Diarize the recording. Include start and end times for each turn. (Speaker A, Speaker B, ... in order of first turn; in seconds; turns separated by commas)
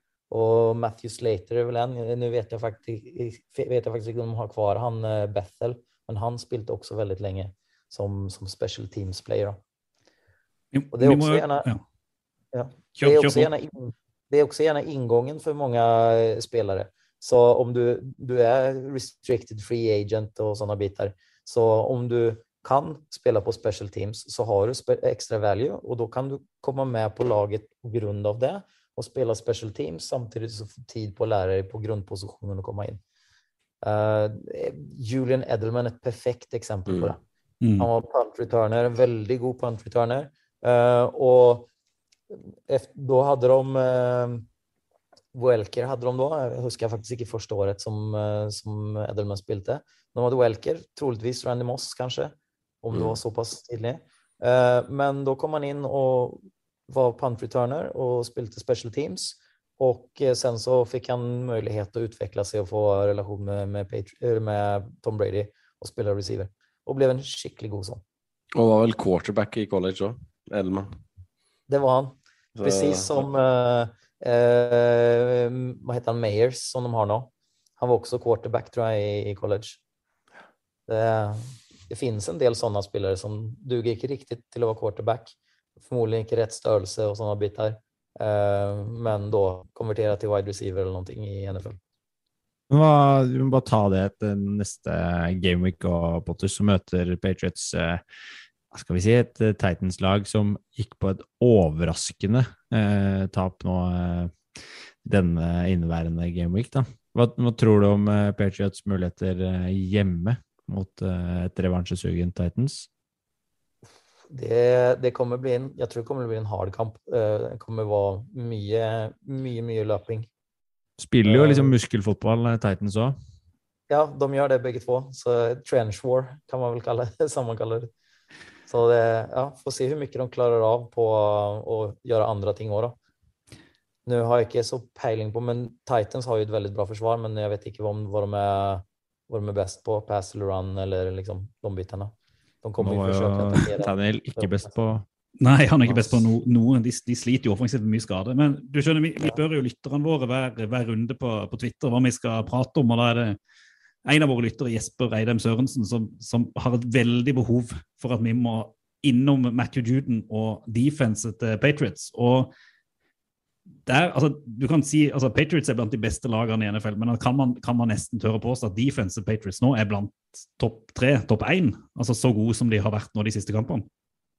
Speaker A: 0.3-9.6, Speaker B: 10.7-11.8, Speaker A: 10.9-11.7, Speaker A: 12.5-33.0, Speaker B: 13.0-13.5, Speaker A: 33.8-37.2, Speaker C: 36.9-37.1, Speaker B: 37.6-37.9, Speaker A: 37.8-41.7, Speaker A: 42.3-44.5, Speaker A: 45.3-68.0, Speaker C: 52.9-53.2, Speaker C: 68.5-70.9, Speaker A: 71.7-79.8, Speaker C: 72.6-73.3, Speaker A: 80.9-91.8, Speaker D: 92.7-98.0, Speaker D: 98.7-104.4, Speaker D: 105.0-112.9, Speaker A: 114.3-120.3, Speaker D: 121.0-123.2, Speaker A: 121.3-121.8, Speaker A: 123.9-127.9, Speaker A: 128.7-133.0, Speaker A: 134.1-144.7, Speaker D: 142.8-145.1, Speaker B: 145.4-153.4, Speaker D: 145.9-146.2, Speaker B: 154.1-162.5, Speaker B: 163.9-173.9